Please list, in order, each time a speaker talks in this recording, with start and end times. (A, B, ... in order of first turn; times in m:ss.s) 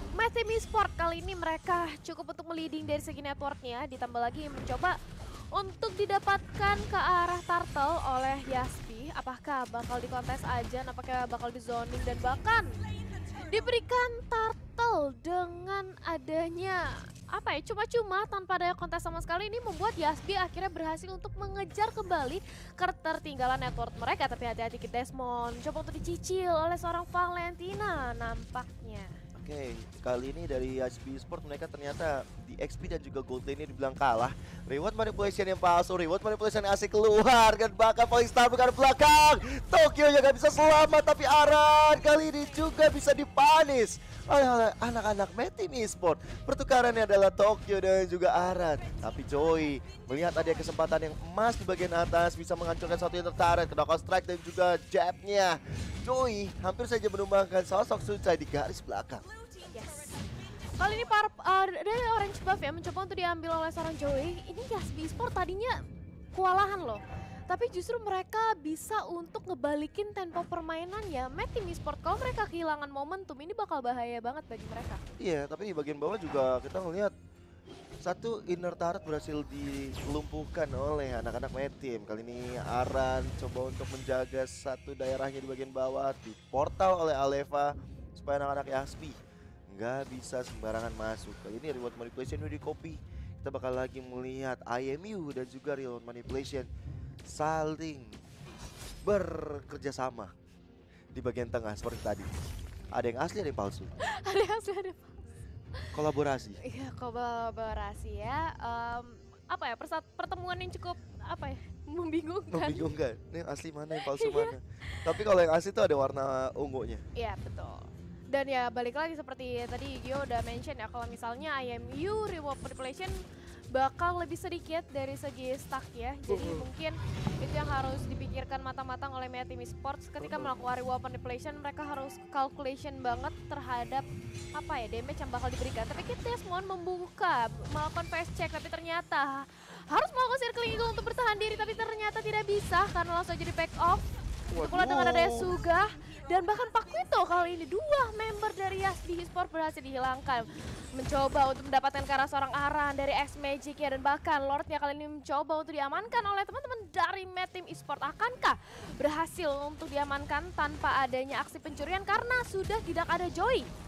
0:00.2-0:05.0 A
0:05.5-0:12.7 A
0:13.4-0:29.1 A
0:29.4-0:59.2 B
0:59.6-1:00.2 A
1:00.8-1:05.8 A
1:06.3-1:15.0 A
1:15.2-1:17.1 B
1:18.0-1:29.2 B
1:29.7-1:36.7 B
1:37.3-1:38.2 B
1:39.0-1:40.3 B
1:41.1-1:42.3 B
1:42.9-1:43.9 B
1:44.0-1:45.2 A
1:45.9-1:46.6 B
1:46.6-1:52.9 A
1:52.5-1:57.0 B
1:53.9-1:54.6 A
1:57.2-2:03.2 A
2:03.7-2:43.7 A
2:06.3-2:06.7 B
2:10.2-2:10.6 B
2:24.5-2:25.5 B